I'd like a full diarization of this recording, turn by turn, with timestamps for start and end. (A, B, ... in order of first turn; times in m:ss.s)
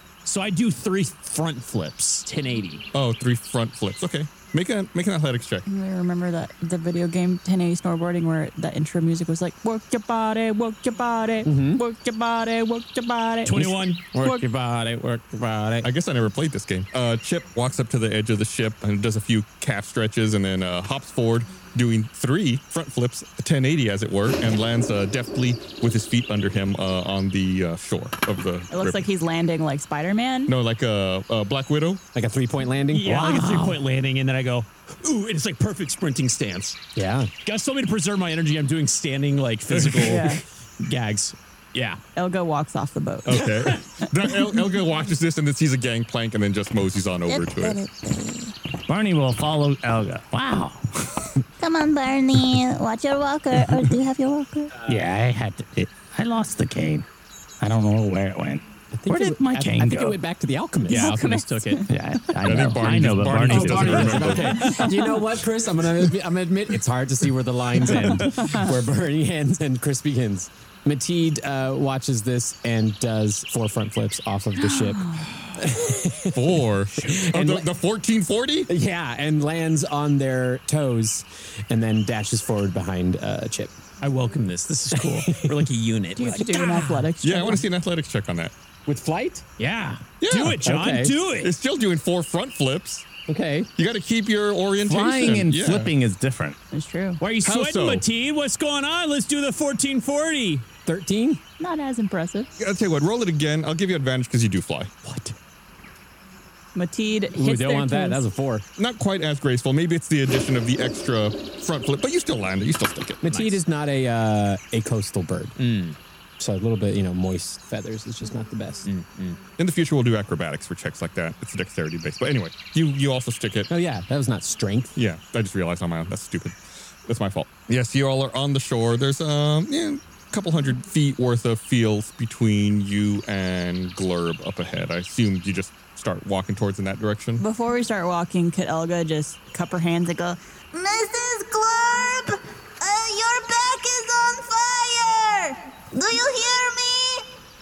0:00.2-0:02.8 A
0:02.9-0:05.6 B
0:05.7-0:14.4 C
0:11.4-0:11.8 D
0:13.4-0:15.9 A
0:15.8-0:29.1 B
0:28.7-0:30.5 C
0:30.5-0:32.0 B
0:32.2-0:33.3 D
0:32.9-0:36.8 A
0:33.1-0:33.8 E
0:37.0-0:37.3 D
0:37.4-0:42.0 A
0:39.7-0:40.2 B
0:40.0-0:40.4 C
0:42.2-0:43.5 C
0:43.3-0:47.8 B
0:43.5-0:43.8 A
0:47.3-0:48.6 F
0:48.9-0:51.3 E
0:51.6-0:54.8 F
0:54.9-0:57.1 E
0:57.6-1:00.2 E
0:58.9-1:01.2 D
1:00.9-1:01.9 C
1:00.9-1:01.8 A
1:01.9-1:04.4 E
1:02.4-1:04.6 B
1:03.4-1:17.7 D
1:08.2-1:08.7 C
1:14.6-1:15.3 C
1:16.3-1:18.7 B
1:18.7-1:23.8 D
1:24.0-1:27.1 A
1:24.9-1:25.7 D
1:26.2-1:27.6 C
1:27.2-1:28.5 B
1:28.9-1:29.4 D
1:29.6-1:31.5 A
1:30.2-1:30.6 B
1:30.6-1:31.2 D
1:31.4-1:33.1 B
1:33.3-1:33.7 D
1:33.8-1:35.9 B
1:34.8-1:36.6 E
1:36.7-1:37.2 C
1:37.2-1:40.6 A
1:37.4-1:38.0 B
1:40.9-1:41.4 D
1:41.6-1:42.5 C
1:42.6-1:44.9 B
1:46.8-1:48.2 C
1:47.4-1:48.6 D
1:48.8-1:53.2 B
1:53.2-1:55.6 D
1:53.3-1:53.6 A
1:55.6-1:56.0 A
1:56.4-1:58.9 D
1:58.9-1:59.4 A
1:59.6-2:03.7 B
2:03.7-2:05.0 D
2:05.0-2:17.4 B
2:17.4-2:20.4 C
2:20.7-2:27.2 F